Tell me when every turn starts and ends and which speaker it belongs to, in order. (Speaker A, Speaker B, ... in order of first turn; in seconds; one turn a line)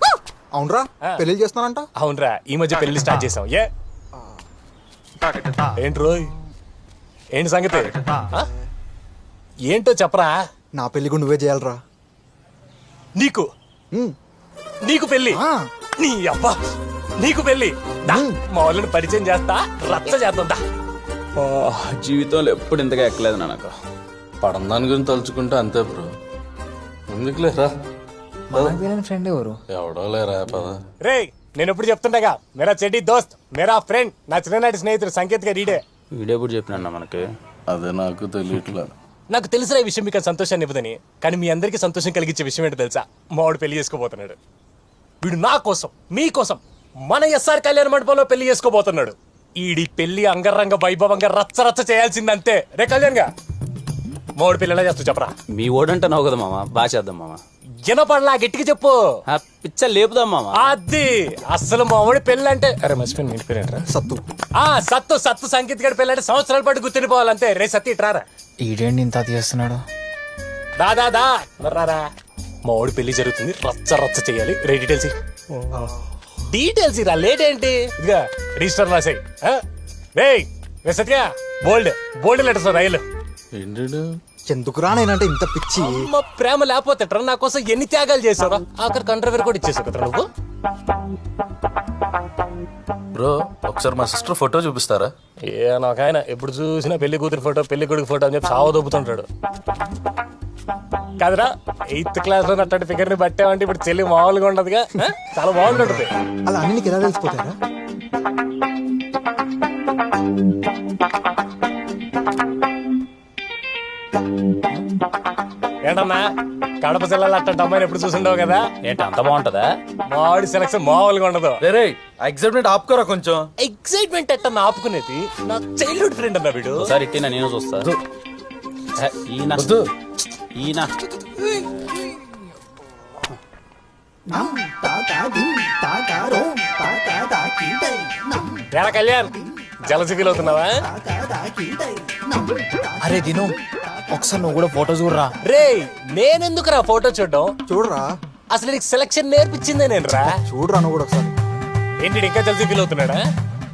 Speaker A: 0.5-1.9
Speaker B: 2.0-3.7
Speaker B: 5.8-6.3
Speaker B: 7.4-8.5
Speaker B: 9.7-10.5
Speaker A: 10.7-11.8
Speaker B: 13.2-13.5
Speaker B: 14.8-15.4
Speaker A: 15.3-15.7
Speaker B: 16.0-16.6
Speaker B: 17.2-20.6
Speaker A: 18.1-18.4
Speaker C: 21.4-23.7
Speaker D: 24.4-26.1
Speaker D: 27.1-27.7
Speaker D: 28.5-28.8
Speaker E: 28.5-29.6
Speaker D: 29.7-30.8
Speaker B: 31.0-35.8
Speaker C: 36.1-37.3
Speaker D: 37.7-38.9
Speaker B: 39.3-44.4
Speaker B: 45.2-53.3
Speaker B: 54.4-55.3
Speaker C: 55.5-57.4
Speaker B: 57.8-59.0
Speaker C: 59.3-60.8
Speaker B: 60.6-63.9
Speaker A: 63.9-64.2
Speaker B: 64.6-68.2
Speaker E: 68.6-69.8
Speaker B: 70.8-72.0
Speaker B: 72.7-75.1
Speaker A: 75.7-76.0
Speaker B: 76.5-79.6
Speaker B: 80.2-83.0
Speaker D: 83.5-84.2
Speaker A: 84.5-86.1
Speaker B: 85.8-90.3
Speaker D: 93.2-95.1
Speaker B: 95.5-99.3
Speaker B: 101.2-106.1
Speaker A: 105.6-107.6
Speaker B: 115.8-116.3
Speaker B: 116.8-118.7
Speaker C: 118.8-119.7
Speaker B: 120.1-121.6
Speaker D: 121.7-123.5
Speaker B: 123.6-126.9
Speaker C: 126.8-127.9
Speaker C: 129.0-129.8
Speaker D: 129.6-129.8
Speaker C: 130.6-130.9
Speaker B: 138.7-140.9
Speaker E: 143.0-143.6
Speaker E: 144.1-145.3
Speaker B: 145.4-147.5
Speaker A: 147.7-148.1
Speaker B: 148.5-150.4
Speaker A: 150.2-151.4
Speaker B: 152.0-153.2